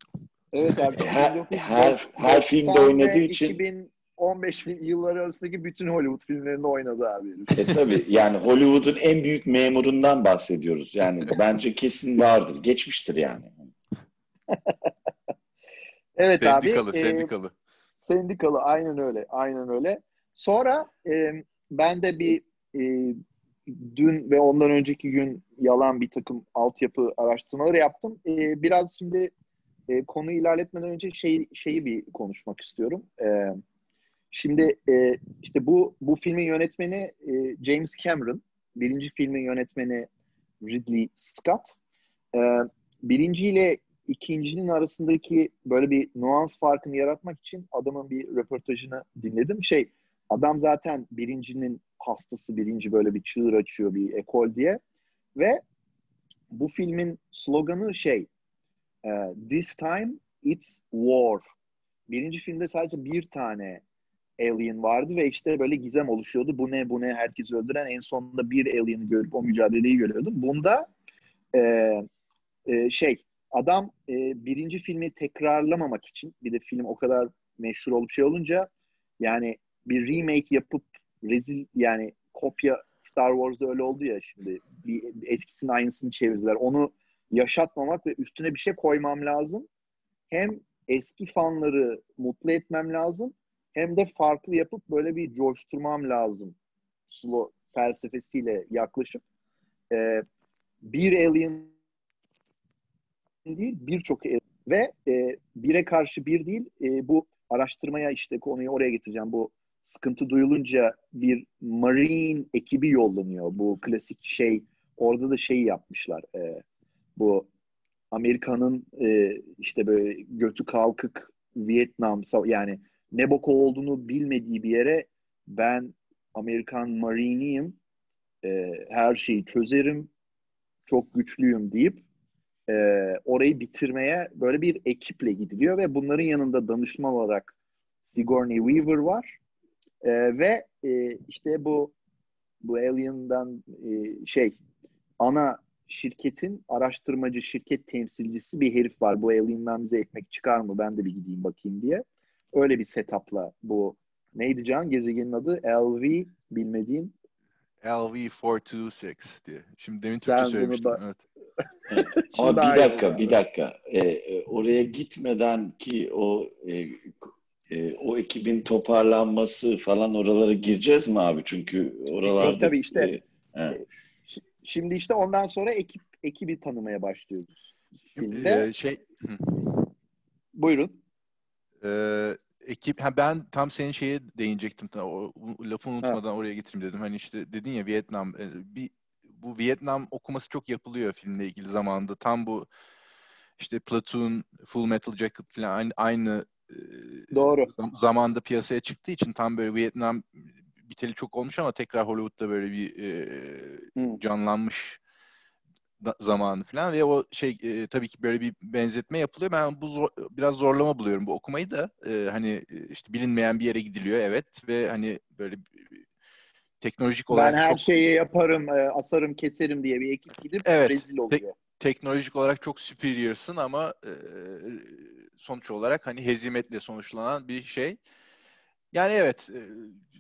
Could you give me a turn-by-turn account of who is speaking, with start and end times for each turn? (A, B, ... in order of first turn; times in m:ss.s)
0:00.5-0:07.5 A
0:01.0-0:03.6 B
0:07.6-0:13.7 B
0:14.5-0:14.9 A
0:16.2-0:17.3 A
0:16.4-0:17.5 C
0:18.0-0:29.3 A
0:29.9-0:33.6 A
0:34.3-0:40.1 A
0:40.6-0:41.7 A
0:42.3-0:54.8 A
0:55.4-0:55.6 A
0:56.5-0:58.3 A
0:59.0-1:01.4 A
1:02.1-1:03.8 A
1:04.4-1:10.9 A
1:11.5-1:12.0 A
1:12.7-1:29.7 A
1:30.3-1:36.6 A
1:37.1-1:39.2 A
1:39.9-1:40.2 A
1:40.8-1:41.7 A
1:43.4-1:56.6 A
1:57.2-1:57.5 A
1:58.1-2:07.8 A
2:08.4-2:10.1 A
2:10.9-2:12.0 A
2:12.7-2:17.5 A
2:18.1-2:19.4 A
2:20.0-2:21.9 A
2:22.6-2:24.6 A
2:25.2-2:37.1 A
2:37.8-2:41.2 C
2:40.2-2:41.0 A
2:41.9-2:53.8 B
2:41.9-2:43.4 A
2:52.2-2:53.1 A
2:53.7-2:58.7 A
2:58.1-2:59.8 C
3:00.6-3:01.0 A
3:01.8-3:12.7 C
3:13.6-3:25.0 C
3:17.3-3:17.7 A
3:26.0-3:35.7 C
3:36.8-3:37.8 C
3:37.3-3:41.6 A
3:40.6-3:48.0 C
3:48.9-3:50.0 C